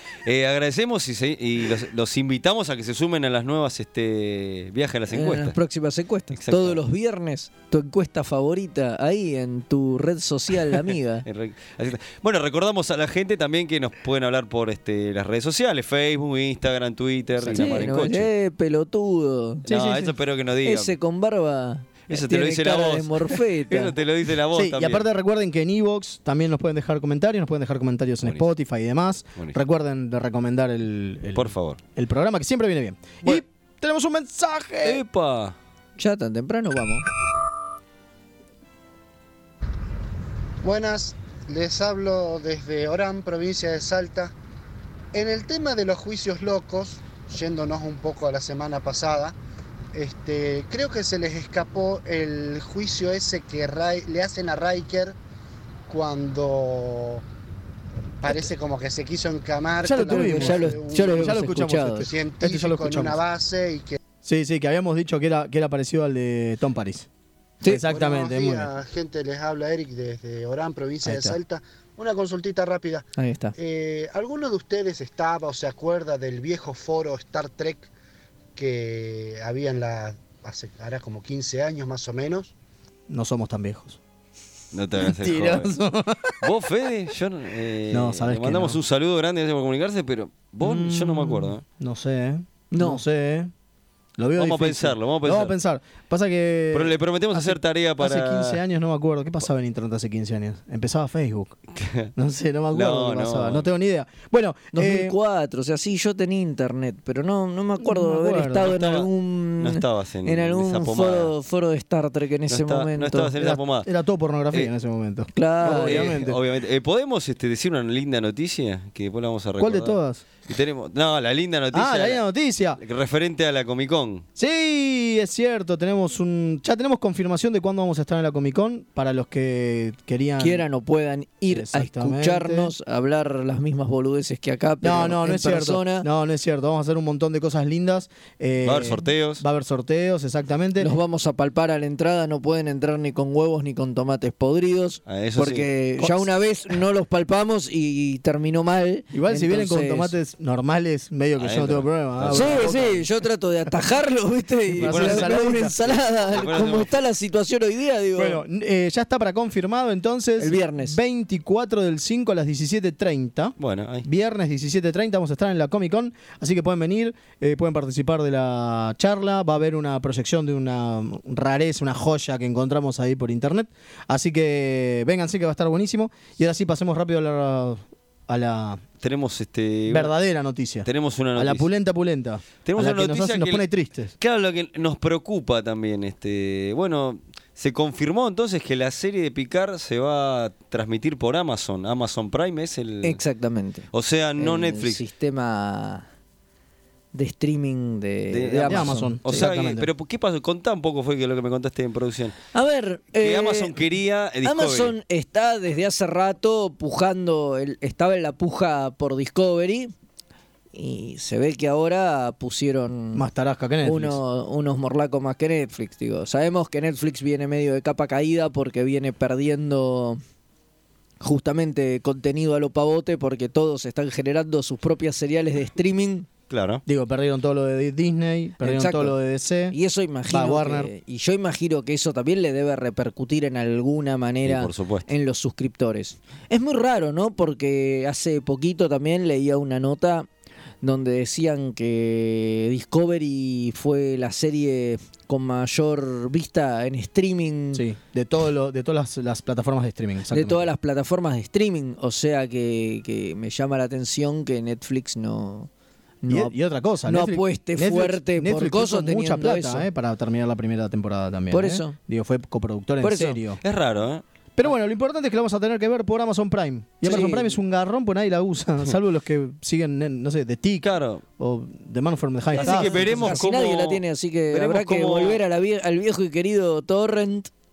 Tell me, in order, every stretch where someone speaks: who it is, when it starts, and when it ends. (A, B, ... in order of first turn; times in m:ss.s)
0:00.2-0:05.6 A
0:05.1-0:11.2 B
0:06.3-0:06.8 A
0:11.2-0:18.3 A
0:17.4-0:19.6 B
0:17.5-0:17.8 C
0:19.6-0:20.9 A
0:19.7-0:20.1 C
0:20.6-0:23.9 B
0:22.1-0:25.0 A
0:24.5-0:35.0 C
0:31.3-0:31.8 A
0:34.8-0:35.6 A
0:36.0-0:37.0 B
0:40.6-0:44.3 D
0:45.1-0:49.4 D
0:49.9-0:55.2 D
0:55.9-0:57.2 D
0:58.2-1:01.4 D
0:59.8-1:03.2 C
0:59.9-1:02.1 B
1:02.0-1:04.0 D
1:04.2-1:07.1 C
1:07.6-1:08.7 C
1:07.8-1:17.9 D
1:11.0-1:11.4 C
1:13.2-1:13.5 B
1:18.6-1:22.5 D
1:23.1-1:24.0 C
1:24.7-1:25.7 A
1:25.0-1:26.4 C
1:26.4-1:31.6 A
1:27.9-1:28.8 C
1:30.6-1:33.5 C
1:32.7-1:33.0 B
1:34.2-1:41.6 C
1:34.4-1:35.5 A
1:36.7-1:38.6 A
1:41.8-1:42.1 A
1:42.2-1:45.2 C
1:42.7-1:43.7 A
1:44.7-1:53.3 B
1:47.8-1:48.7 C
1:48.6-1:51.3 A
1:52.5-1:53.9 A
1:53.4-1:56.4 C
1:55.4-1:56.1 B
1:55.6-2:02.2 A
1:59.6-2:00.2 C
2:01.7-2:02.8 C
2:02.8-2:04.2 A
2:04.4-2:10.6 C
2:10.4-2:16.1 B
2:11.5-2:12.7 C
2:14.8-2:20.9 C
2:18.6-2:19.4 A
2:20.8-2:30.1 B
2:25.1-2:25.7 A
2:26.0-2:26.2 C
2:29.1-2:33.0 C
2:31.4-2:33.0 A
2:32.3-2:38.4 B
2:34.7-2:35.7 C
2:34.8-2:36.9 A
2:38.2-2:58.8 C
2:40.4-2:41.0 B
2:43.6-2:44.0 A
2:59.0-3:00.1 A
2:59.9-3:04.1 C
3:00.8-3:01.6 A
3:02.6-3:03.6 A
3:04.2-3:13.2 A
3:13.0-3:16.0 B
3:13.9-3:15.0 A
3:17.1-3:19.5 B
3:18.3-3:22.4 A
3:18.6-3:19.9 C
3:22.5-3:23.8 B
3:23.2-3:24.9 A
3:24.4-3:29.9 B
3:30.7-3:33.2 B
3:33.1-3:34.2 C
3:33.8-3:40.2 B
3:41.2-3:46.3 B
3:46.5-3:46.8 A
3:46.9-3:49.8 C
3:48.6-3:49.2 B
3:49.7-4:00.3 B
3:50.3-3:50.9 C
3:54.4-3:55.1 A
4:00.8-4:07.8 B
4:07.7-4:10.7 C
4:10.3-4:15.7 B
4:16.2-4:16.5 B
4:16.3-4:23.6 C
4:17.0-4:19.9 B
4:21.5-4:22.0 B
4:23.0-4:23.4 B
4:23.6-4:24.2 A
4:24.6-4:30.9 C
4:27.0-4:27.6 B
4:30.8-4:31.2 A
4:31.4-4:33.4 C
4:32.5-4:37.5 B
4:32.5-4:35.4 A